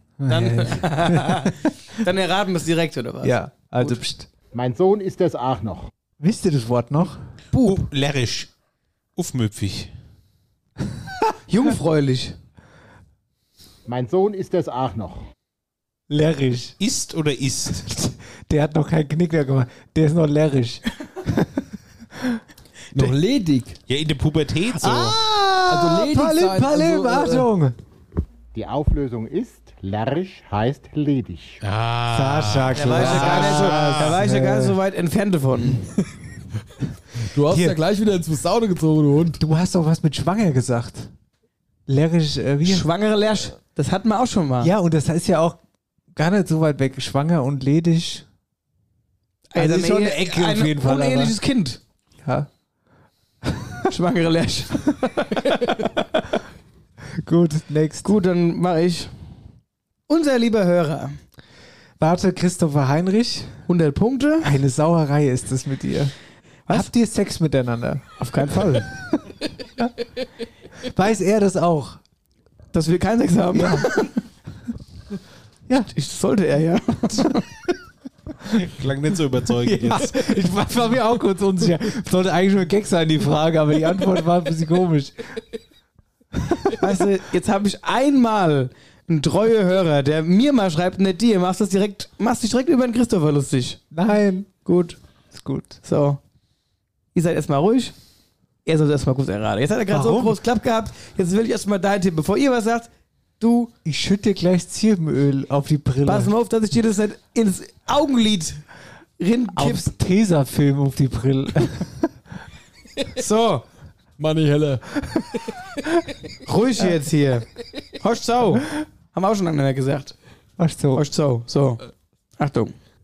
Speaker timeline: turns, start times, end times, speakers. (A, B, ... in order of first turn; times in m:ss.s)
0:00.2-0:01.5 A
0:00.3-0:04.0 B
0:03.2-0:04.3 A
0:04.5-0:05.9 C
0:06.2-0:07.2 A
0:07.6-0:08.5 D
0:09.2-0:09.9 D
0:11.5-0:12.4 B
0:13.9-0:15.2 C
0:16.1-0:16.8 A
0:16.8-0:17.9 D
0:18.0-0:21.5 A
0:22.9-0:23.8 E
0:23.9-0:25.2 D
0:24.8-0:27.7 A
0:25.7-0:27.5 E
0:28.5-0:31.6 C
0:31.6-0:34.2 D
0:32.1-0:34.8 A
0:32.8-0:35.8 B
0:37.3-0:39.4 E
0:37.5-0:37.8 A
0:39.4-0:41.1 A
0:41.9-0:42.9 A
0:42.6-0:44.7 B
0:44.6-0:45.6 A
0:46.2-0:48.2 A
0:49.5-0:51.8 B
0:49.6-0:51.4 A
0:53.9-0:56.0 B
0:57.2-0:58.1 A
0:58.0-0:59.1 B
1:00.1-1:01.2 B
1:02.0-1:03.5 A
1:03.7-1:04.5 B
1:04.4-1:06.1 A
1:06.7-1:08.1 A
1:08.2-1:08.9 B
1:10.8-1:12.0 A
1:12.7-1:14.1 B
1:13.6-1:13.9 A
1:15.9-1:17.4 B
1:18.5-1:20.2 D
1:19.9-1:25.2 A
1:26.8-1:33.8 B
1:33.9-1:34.5 A
1:34.6-1:35.0 B
1:35.3-1:35.8 A
1:35.8-1:36.2 B
1:37.1-1:37.9 B
1:38.7-1:43.7 B
1:39.9-1:40.4 A
1:43.8-1:46.3 A
1:46.0-1:48.6 B
1:49.2-1:49.9 B
1:49.5-1:52.1 A
1:53.2-1:53.6 B
1:54.2-1:54.8 E
1:56.5-1:57.5 B
1:58.0-2:00.1 B
2:00.6-2:01.0 A
2:01.0-2:01.8 B
2:02.4-2:02.7 B